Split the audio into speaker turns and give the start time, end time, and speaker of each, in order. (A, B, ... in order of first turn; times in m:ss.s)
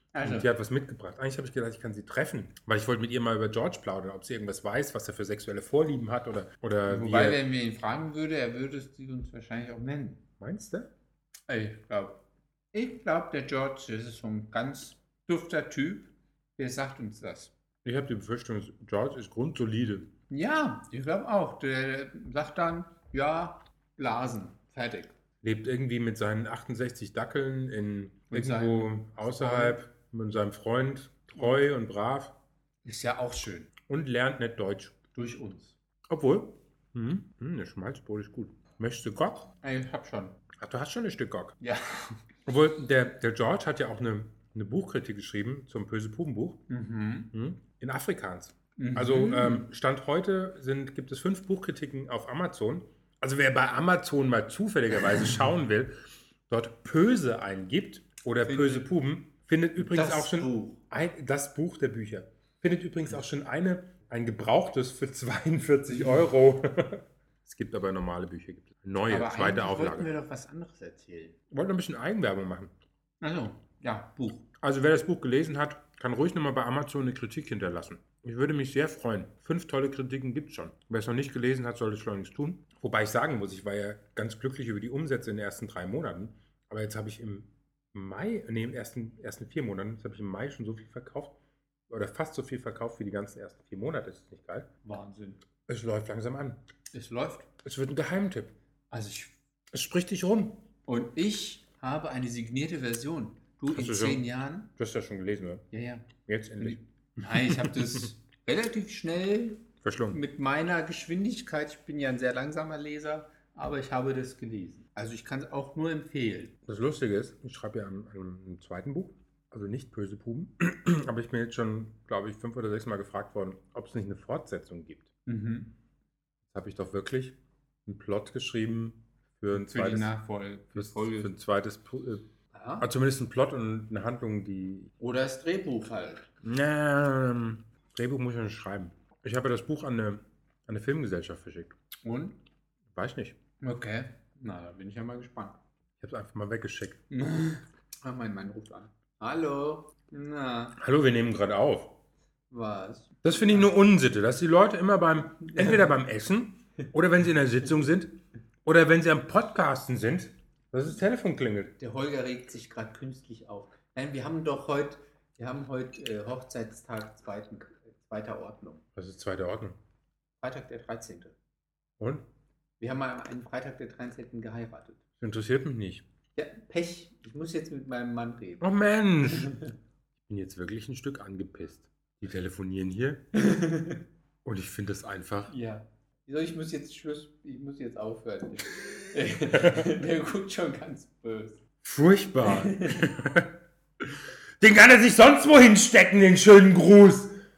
0:00.1-0:00.5 A
0:00.2-0:07.4 B
0:06.9-0:10.2 A
0:10.4-0:10.9 B
0:11.5-0:12.2 A
0:12.7-0:17.5 A
0:17.8-0:20.1 B
0:20.3-0:25.2 A
0:25.4-0:32.4 B
0:28.3-0:29.8 A
0:32.8-0:33.7 A
0:33.9-0:35.0 B
0:35.1-0:35.8 A
0:36.1-0:39.5 B
0:39.6-0:40.4 A
0:40.6-0:41.6 B
0:41.6-0:42.2 A
0:42.5-0:46.6 B
0:46.7-0:47.3 A
0:47.3-1:10.1 B
0:48.8-0:49.7 A
0:58.4-0:58.9 A
0:59.8-1:00.8 A
1:09.1-1:11.4 A
1:11.5-1:12.7 B
1:13.2-1:14.5 A
1:14.6-1:31.4 B
1:31.9-1:34.7 B
1:34.8-1:35.4 A
1:35.7-1:36.6 B
1:36.9-1:37.5 A
1:37.6-1:38.5 B
1:38.9-1:39.4 A
1:39.7-1:40.6 B
1:40.9-1:44.7 A
1:43.7-1:44.2 B
1:44.8-1:45.6 B
1:45.7-1:56.6 A
1:46.2-1:48.1 B
1:49.8-1:50.2 B
1:56.7-2:05.1 B
2:05.3-2:05.7 A
2:06.5-2:10.1 B
2:09.5-2:11.3 A
2:10.8-2:12.2 B
2:12.5-2:12.9 A
2:12.8-2:14.9 B
2:15.0-2:16.3 A
2:16.4-2:21.8 B
2:22.0-2:22.4 A
2:23.0-2:23.4 B
2:23.6-2:25.6 A
2:26.0-2:27.0 B
2:27.1-2:30.8 A
2:30.8-2:32.0 B
2:32.5-2:33.7 A
2:33.2-2:41.7 B
2:41.8-2:48.8 A
2:49.0-2:49.8 B
2:50.4-2:51.4 A
2:52.0-2:52.2 B
2:52.8-2:55.0 A
2:55.2-2:56.0 B
2:56.4-2:58.7 A
2:58.6-2:59.6 B
2:59.3-2:59.7 A
3:00.2-3:03.2 B
3:03.3-3:04.0 A
3:04.4-3:05.5 B
3:05.5-3:11.6 A
3:09.5-3:09.9 B
3:11.8-3:13.6 B
3:12.4-3:13.0 A
3:14.6-3:17.4 B